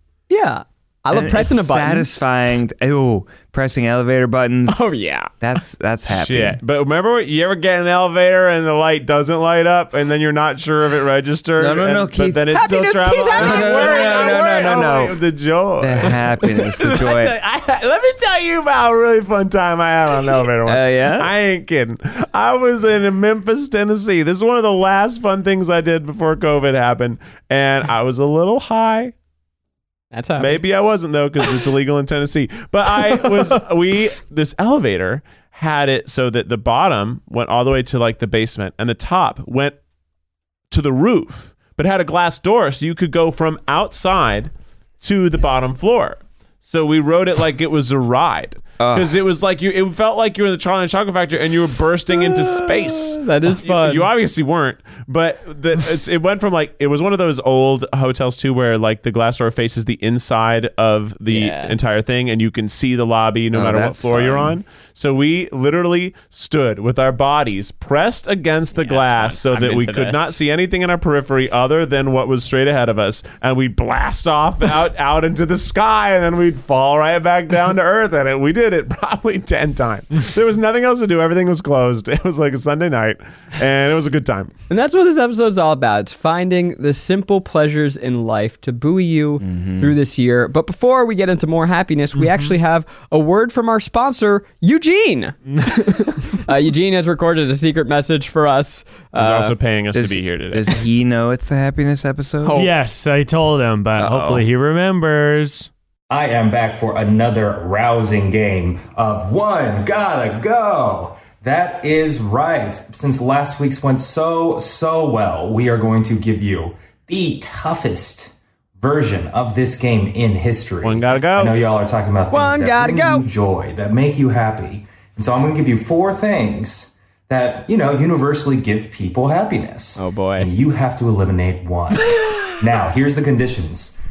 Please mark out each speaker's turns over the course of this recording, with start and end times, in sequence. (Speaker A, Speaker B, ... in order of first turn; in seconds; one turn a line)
Speaker A: 0.3-2.1
Speaker B: 1.1-6.6
Speaker A: 4.7-5.3
Speaker C: 6.1-29.1
Speaker B: 11.6-12.6
Speaker A: 12.5-15.1
Speaker B: 13.3-15.2
Speaker B: 15.8-17.4
Speaker B: 20.6-21.3
Speaker A: 30.1-30.6
Speaker C: 30.4-39.8
Speaker C: 40.7-84.5
Speaker B: 48.8-49.1
Speaker A: 52.1-54.1
Speaker A: 61.3-61.8
Speaker B: 63.5-64.6
Speaker A: 68.8-70.4
Speaker A: 84.7-99.6
Speaker B: 89.4-90.0
Speaker D: 92.1-92.6
Speaker C: 99.2-100.8
Speaker B: 99.9-102.7
Speaker A: 102.4-102.7
Speaker D: 102.5-105.7
Speaker B: 104.0-104.5
Speaker E: 106.1-133.9
Speaker C: 120.8-121.6
Speaker A: 122.3-123.3
Speaker A: 130.0-130.5